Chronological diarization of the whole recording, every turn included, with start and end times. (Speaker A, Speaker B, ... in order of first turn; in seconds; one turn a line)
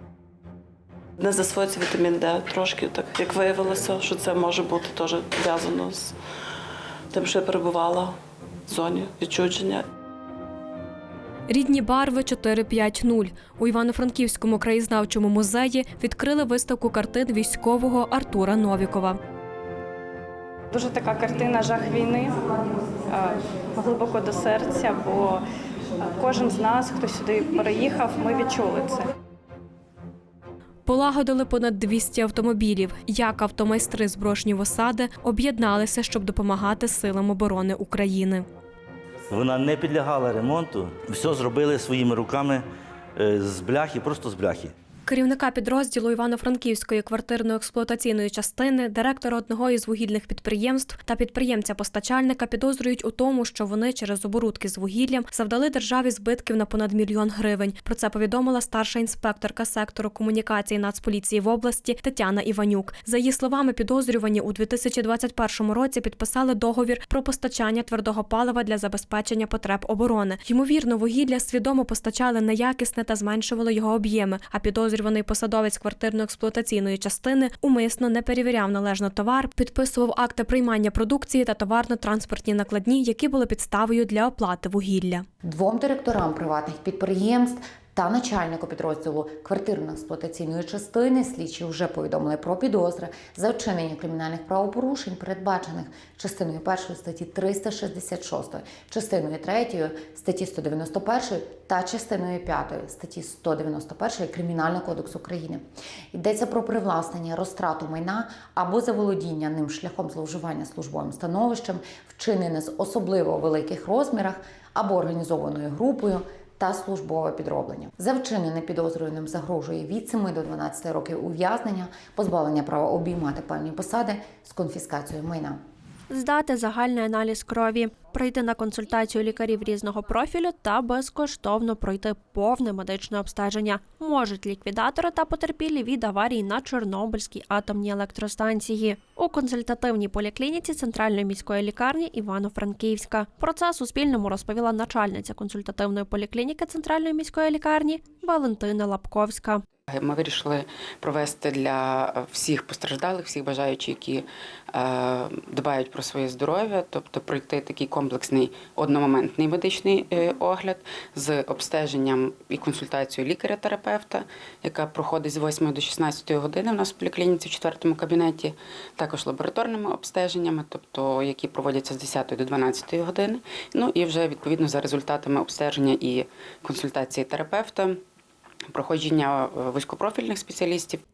Speaker A: 1.2-6.2
Speaker A: 7.1-8.2
Speaker A: 8.7-9.8
Speaker B: 11.5-19.2
Speaker C: 20.7-22.4
Speaker C: 23.1-25.4
Speaker C: 26.2-29.1
Speaker B: 30.9-38.5
Speaker D: 39.3-42.6
Speaker D: 43.2-44.7
Speaker B: 45.1-85.2
Speaker E: 85.4-125.6
Speaker F: 126.1-149.6
Speaker G: 149.9-178.0
Speaker G: 178.7-181.0